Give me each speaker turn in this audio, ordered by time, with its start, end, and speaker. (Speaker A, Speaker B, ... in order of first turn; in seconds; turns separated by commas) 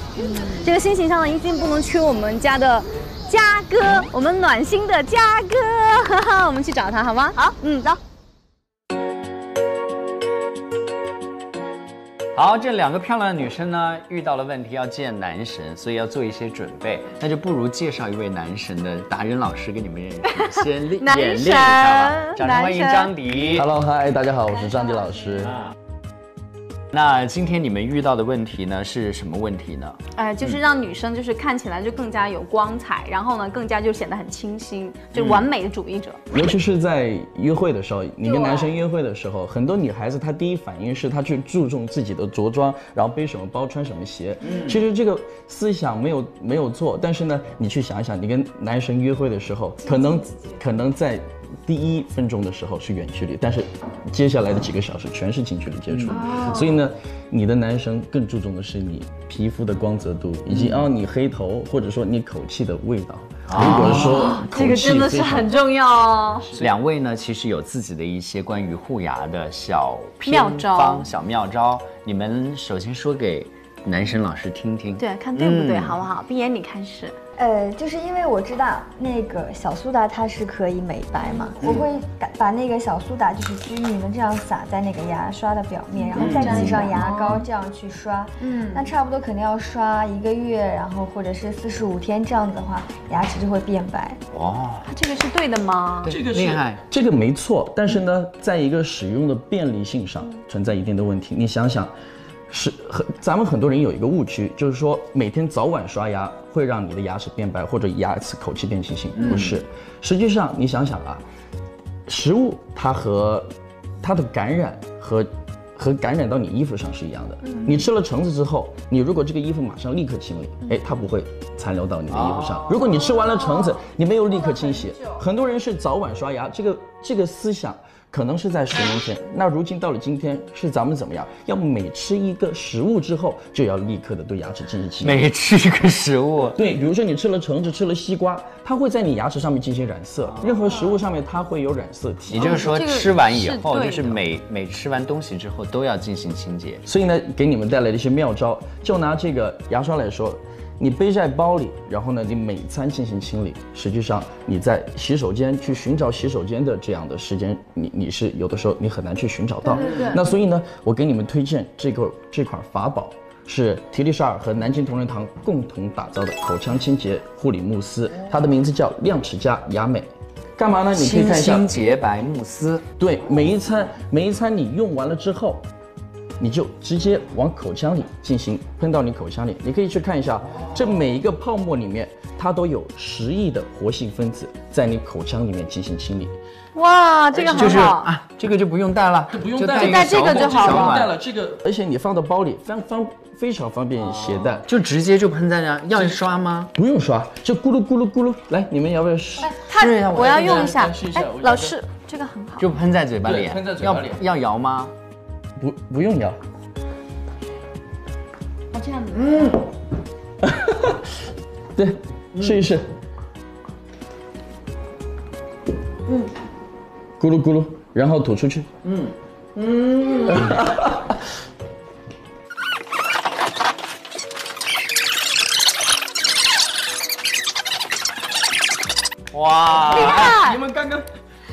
Speaker A: 0.2-0.7, Speaker B: 0.4-8.0, Speaker C: 12.3-23.7, Speaker B: 20.5-23.1, Speaker D: 23.5-25.6, Speaker C: 26.9-30.6, Speaker B: 30.1-36.4, Speaker C: 35.1-35.5, Speaker D: 36.3-65.6, Speaker B: 38.2-38.7, Speaker B: 49.9-50.6, Speaker C: 55.9-56.4, Speaker B: 56.1-56.7, Speaker C: 60.5-60.9, Speaker C: 63.5-64.3, Speaker B: 64.0-66.5, Speaker C: 66.5-76.0, Speaker B: 70.2-71.1, Speaker B: 75.0-77.2, Speaker A: 77.4-94.2, Speaker B: 86.0-87.4, Speaker C: 86.2-86.7, Speaker D: 86.2-86.8, Speaker B: 88.4-88.8, Speaker C: 94.3-94.9, Speaker B: 94.8-96.2, Speaker C: 96.0-96.8, Speaker D: 96.0-101.9, Speaker D: 102.5-111.2, Speaker C: 109.2-109.5, Speaker D: 112.1-113.5, Speaker D: 114.0-135.3, Speaker C: 122.1-122.8, Speaker B: 123.1-125.2, Speaker C: 135.0-136.6, Speaker D: 136.6-142.7, Speaker C: 142.3-146.8, Speaker B: 142.4-144.2, Speaker D: 146.8-171.8, Speaker B: 159.7-160.2, Speaker C: 170.9-172.8, Speaker D: 173.0-175.7, Speaker D: 176.4-186.3, Speaker B: 186.8-188.1, Speaker D: 187.3-187.9, Speaker C: 187.5-191.1, Speaker D: 189.3-194.7, Speaker B: 189.7-191.1, Speaker C: 194.0-196.7, Speaker D: 196.8-199.6, Speaker B: 199.4-202.7, Speaker C: 199.6-200.9, Speaker D: 200.2-201.8, Speaker C: 202.6-204.9, Speaker D: 203.2-204.2, Speaker D: 205.6-206.4, Speaker B: 208.7-209.5, Speaker C: 209.1-209.6, Speaker D: 210.4-211.1, Speaker D: 211.8-212.9, Speaker D: 217.2-218.7, Speaker C: 218.8-220.6, Speaker D: 220.3-221.2, Speaker C: 229.3-230.4, Speaker B: 229.9-230.6, Speaker D: 229.9-231.1